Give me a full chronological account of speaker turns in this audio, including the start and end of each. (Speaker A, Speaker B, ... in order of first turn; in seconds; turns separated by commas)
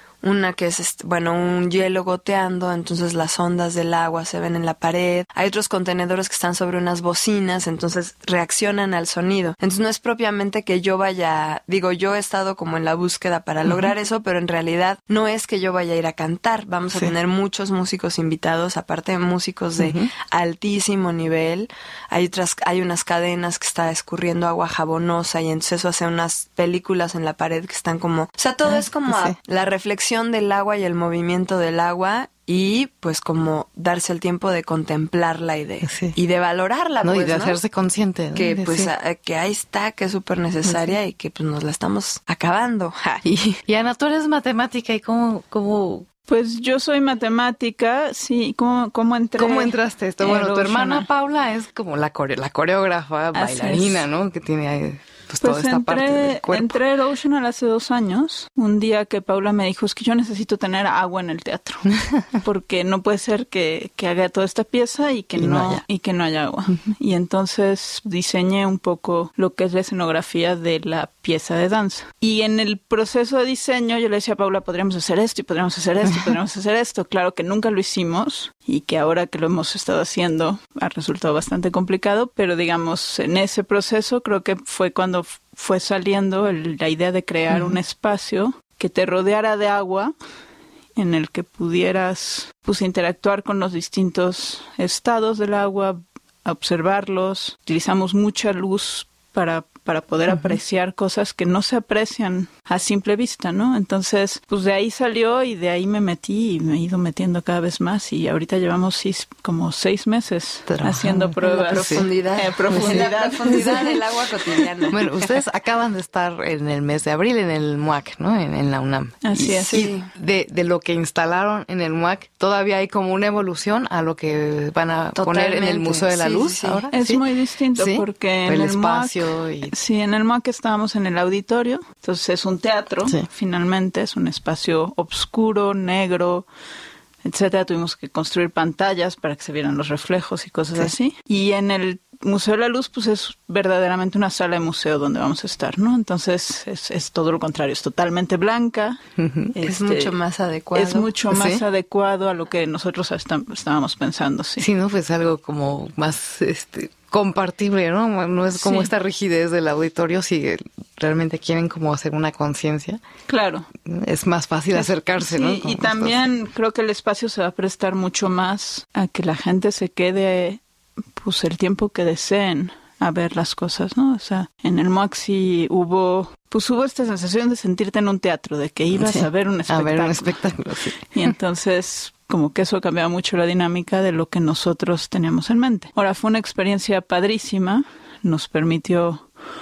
Speaker A: 0.2-37.6, Speaker B: 19.8-20.1, Speaker B: 29.1-29.4, Speaker B: 35.8-36.2, Speaker B: 37.0-38.9, Speaker A: 38.4-43.2, Speaker B: 43.2-46.1, Speaker C: 46.3-51.1, Speaker B: 49.4-56.8, Speaker C: 53.3-54.1, Speaker C: 55.4-90.1, Speaker B: 65.4-65.8, Speaker B: 87.5-87.8, Speaker C: 91.0-114.0, Speaker B: 110.7-112.1, Speaker A: 111.5-115.4, Speaker B: 112.7-113.0, Speaker B: 114.9-129.7, Speaker C: 119.2-119.9, Speaker A: 119.6-120.1, Speaker A: 125.2-126.9, Speaker C: 126.9-136.5, Speaker C: 137.2-149.0, Speaker B: 149.2-149.6, Speaker C: 149.5-150.1, Speaker A: 149.6-151.2, Speaker C: 150.7-154.7, Speaker B: 151.3-151.6, Speaker B: 154.6-163.0, Speaker C: 158.5-158.9, Speaker C: 163.3-163.7, Speaker B: 163.9-166.2, Speaker C: 164.7-170.6, Speaker C: 171.2-180.5, Speaker B: 178.9-181.3, Speaker C: 181.1-189.3